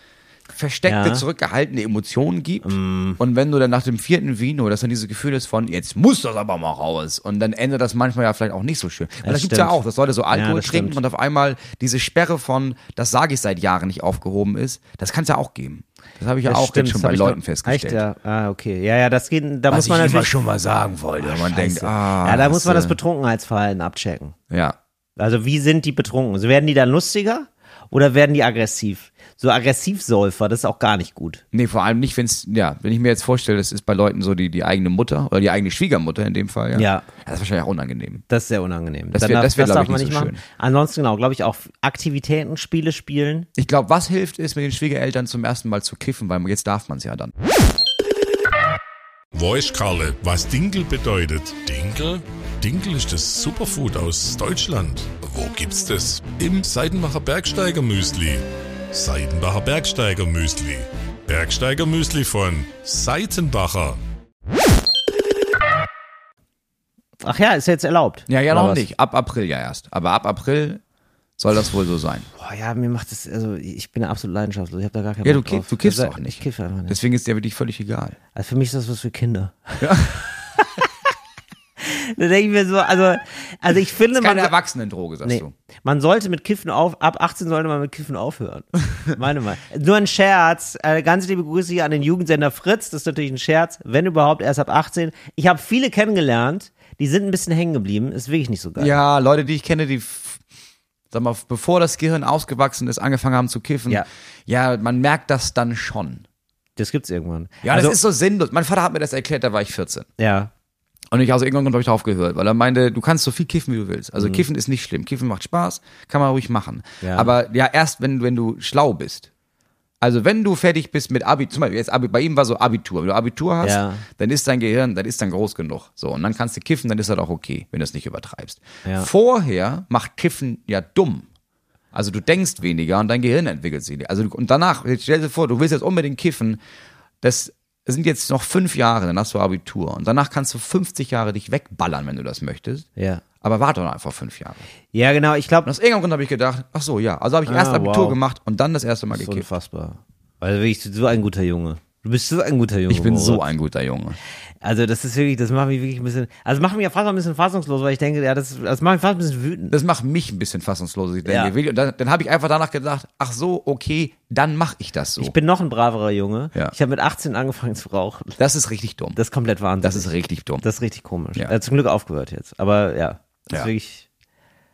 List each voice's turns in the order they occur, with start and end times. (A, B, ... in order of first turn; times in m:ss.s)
0:00.5-0:18.0 A
0:00.8-0:01.2 B
0:02.6-0:03.2 B
0:09.2-0:09.8 B
0:10.3-0:11.0 B
0:16.4-0:20.3 B
0:19.7-0:23.0 A
0:21.2-0:24.3 B
0:24.5-0:24.8 A
0:25.2-0:31.4 B
0:31.5-0:38.2 A
0:36.7-0:37.1 B
0:38.3-0:43.5 B
0:39.1-0:40.4 A
0:43.6-0:47.3 A
0:49.3-1:04.0 C
1:07.2-1:08.8 B
1:08.3-1:10.8 A
1:11.4-1:12.3 A
1:12.3-1:17.0 B
1:15.2-1:18.2 A
1:18.3-1:20.1 B
1:19.8-1:20.2 A
1:20.6-1:20.8 B
1:21.8-1:24.5 B
1:24.1-1:25.5 A
1:25.2-1:39.0 B
1:38.8-1:40.4 A
1:41.1-1:46.2 A
1:46.8-1:48.0 B
1:47.6-1:50.1 A
1:50.2-1:50.5 B
1:51.1-1:59.3 A
1:54.2-1:54.4 B
1:57.0-1:57.3 B
2:00.0-2:11.2 A
2:03.6-2:04.0 B
2:11.9-2:16.6 A
2:17.2-2:22.9 A
2:23.0-2:23.2 B
2:23.4-2:24.6 A
2:24.9-2:25.7 B
2:25.6-2:29.5 A
2:27.4-2:28.2 B
2:29.1-2:33.4 B
2:32.9-2:34.2 A
2:34.6-2:39.7 B
2:39.7-2:45.3 A
2:41.2-2:41.5 B
2:45.2-2:48.4 B
2:48.4-2:49.2 A
2:49.2-2:50.1 B
2:49.8-2:50.6 A
2:50.6-2:54.0 B